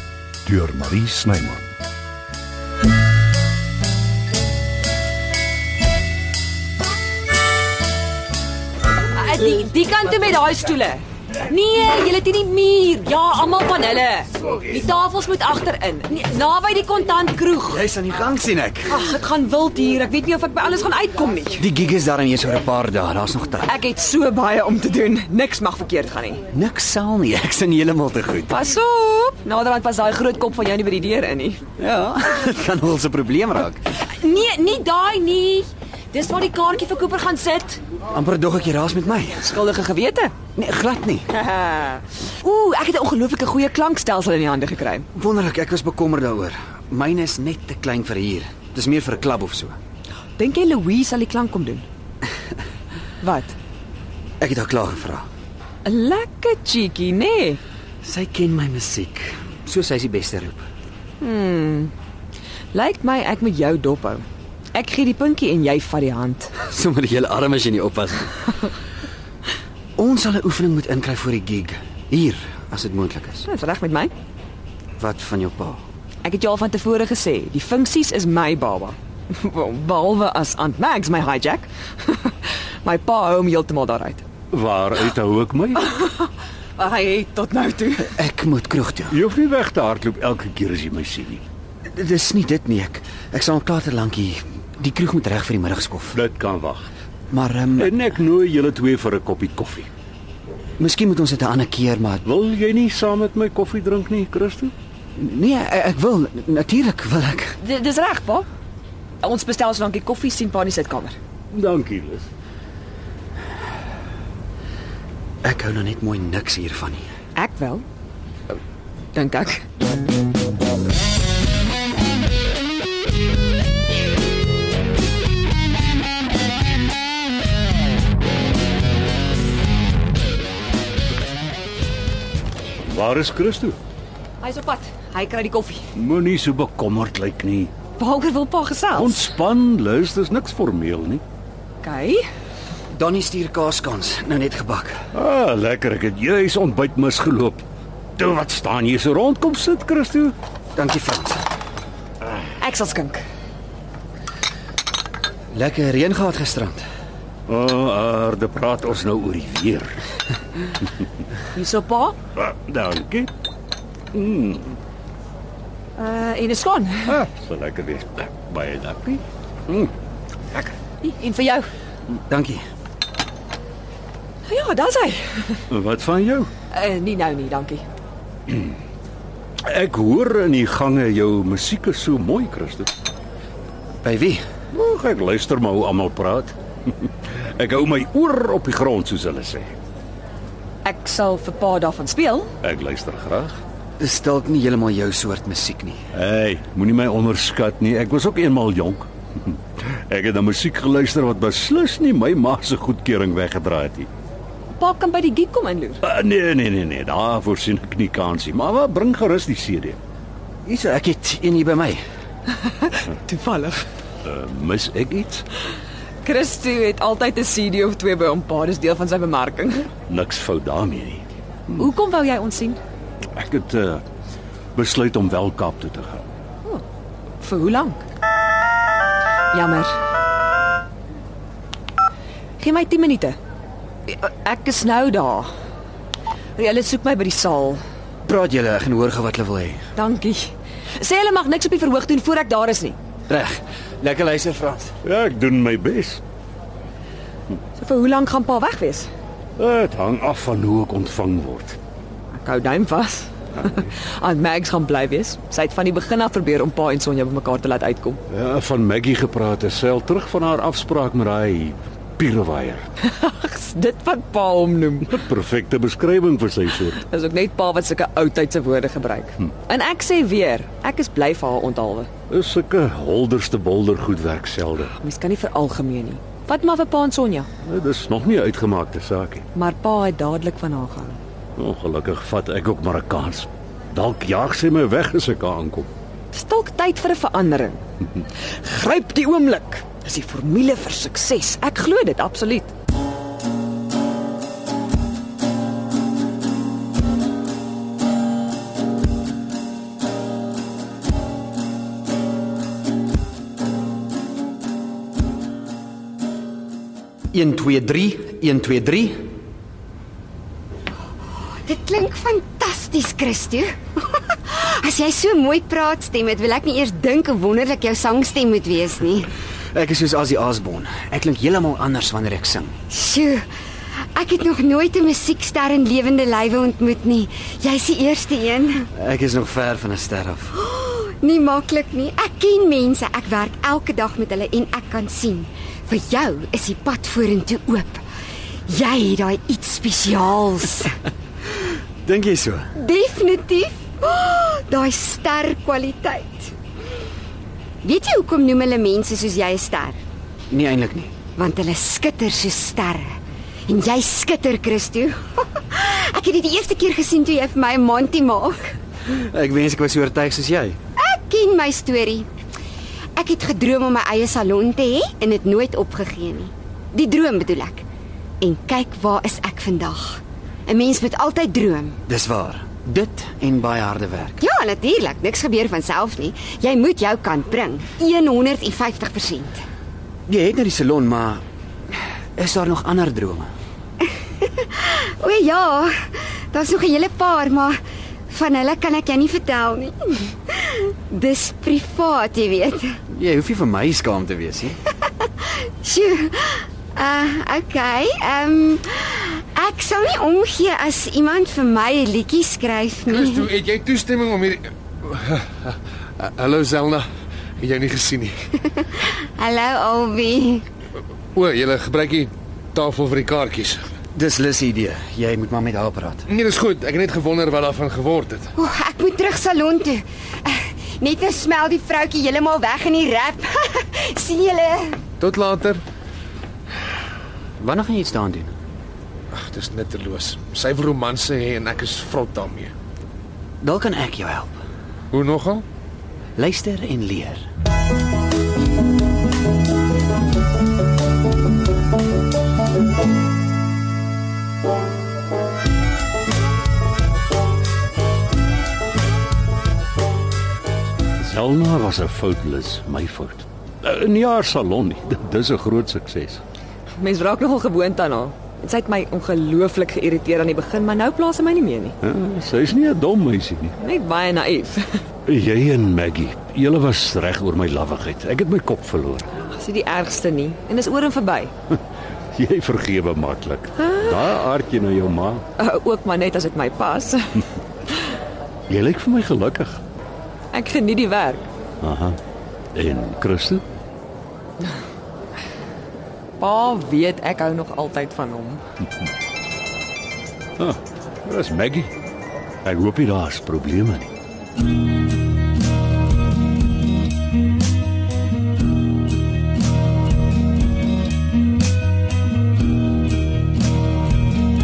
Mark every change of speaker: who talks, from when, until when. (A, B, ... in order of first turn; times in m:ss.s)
0:00.4-0:01.7 A
0:09.1-0:17.8 B
0:17.7-0:19.0 C
0:18.9-0:21.7 B
0:21.6-0:23.8 C
0:23.7-0:26.4 B
0:26.5-0:28.6 C
0:28.5-0:31.6 B
0:31.8-0:33.8 C
0:34.2-0:37.8 B
0:38.1-0:39.5 C
0:39.4-0:40.4 B
0:40.6-0:41.3 C
0:41.4-0:45.1 B
0:45.1-0:49.8 C
0:50.4-0:51.9 B
0:53.2-0:53.6 B
0:54.4-0:55.3 C
0:55.8-0:57.6 B
0:58.0-1:00.6 C
1:01.2-1:01.9 B
1:02.7-1:06.5 B
1:06.6-1:08.4 C
1:10.0-1:13.5 C
1:13.5-1:14.1 B
1:15.0-1:15.8 C
1:16.2-1:24.2 B
1:24.5-1:25.9 A
1:25.9-1:28.1 B
1:28.0-1:29.2 C
1:29.1-1:31.4 A
1:31.9-1:36.2 C
1:36.1-1:36.9 A
1:37.3-1:38.0 C
1:37.8-1:39.9 A
1:40.8-1:42.2 C
1:42.2-1:44.7 A
1:45.2-1:47.6 C
1:47.6-1:48.5 B
1:49.2-1:51.2 B
1:51.5-1:52.3 A
1:55.4-1:57.1 C
1:57.4-1:57.8 B
1:59.1-1:59.6 B
2:12.9-2:13.8 A
2:14.4-2:15.8 B
2:16.0-2:17.7 A
2:18.0-2:19.3 B
2:19.0-2:21.2 A
2:21.8-2:22.2 B
2:22.9-2:25.0 C
2:25.1-2:27.6 A
2:28.2-2:30.4 A
2:30.8-2:31.4 C
2:32.6-2:33.2 B
2:35.5-2:36.8 C
2:37.5-2:40.0 A
2:41.5-2:42.2 B
2:42.4-2:43.3 A
2:44.1-2:44.8 A
2:46.0-2:47.2 B
2:47.1-2:49.9 A
2:51.0-2:51.7 B
2:52.3-2:52.6 C
2:54.4-2:55.6 B
2:55.7-2:56.5 A
2:56.7-2:57.8 B
2:58.5-2:58.8 A
2:59.6-3:02.9 A
3:04.0-3:04.4 C
3:04.7-3:09.8 A
3:10.8-3:12.5 B
3:12.6-3:13.6 A
3:14.0-3:16.0 C
3:16.1-3:24.1 A
3:24.8-3:26.0 B
3:26.0-3:30.0 A
3:30.6-3:32.0 C
3:32.5-3:33.8 B
3:34.2-3:35.5 A
3:36.2-3:39.9 B
3:40.1-3:41.2 A
3:41.8-3:42.8 B
3:43.4-3:44.0 A
3:44.8-3:46.3 A
3:47.4-3:48.0 B
3:49.5-3:50.0 B
3:52.6-3:53.4 B
3:54.1-3:55.5 B
3:56.6-3:57.8 B
3:58.2-3:59.8 C
4:00.0-4:03.0 B
4:03.3-4:04.9 C
4:05.0-4:06.2 A
4:07.8-4:09.1 B
4:09.6-4:11.8 A
4:12.3-4:18.2 B
4:18.3-4:22.8 A
4:23.0-4:25.1 B
4:25.1-4:27.0 A
4:27.0-4:32.1 B
4:32.3-4:34.9 A
4:35.0-4:37.5 B
4:37.6-4:39.4 A
4:39.5-4:41.2 B
4:41.6-4:45.9 A
4:46.3-4:47.8 B
4:48.4-4:52.7 B
5:07.3-5:09.3 C
5:11.6-5:19.3 D
5:19.7-5:22.8 C
5:22.9-5:23.5 D
5:24.2-5:28.9 D
5:28.9-5:30.5 C
5:30.6-5:38.0 D
5:38.7-5:41.0 D
5:42.0-5:42.7 C
5:42.8-5:46.5 D
5:47.8-5:50.0 D
5:50.5-5:51.2 C
5:51.4-5:53.1 D
5:53.7-5:58.7 D
5:59.1-6:00.8 C
6:01.0-6:02.3 D
6:03.2-6:07.8 D
6:08.4-6:12.0 D
6:12.1-6:14.4 C
6:14.4-6:19.6 D
6:20.3-6:23.5 C
6:24.4-6:27.8 D
6:28.3-6:33.0 D
6:33.1-6:34.8 C
6:35.4-6:43.5 D
6:43.1-6:48.5 E
6:48.7-6:50.7 D
6:51.3-6:53.9 E
6:54.2-6:56.3 C
6:56.3-6:58.5 E
6:58.6-7:05.0 D
7:05.2-7:05.8 E
7:07.6-7:08.6 C
7:09.3-7:12.7 E
7:13.6-7:14.6 C
7:15.1-7:15.6 E
7:16.4-7:17.4 C
7:31.2-7:36.4 A
7:37.0-7:42.0 B
7:42.0-7:43.7 A
7:43.8-7:45.0 B
7:45.3-7:49.3 A
7:49.4-7:51.5 B
7:52.3-7:55.4 A
7:53.8-7:54.1 B
7:55.6-7:57.4 B
7:58.7-7:59.8 A
8:00.5-8:01.5 B
8:01.8-8:02.2 A
8:02.7-8:03.6 A
8:06.4-8:08.6 B
8:10.6-8:11.9 A
8:12.6-8:14.1 A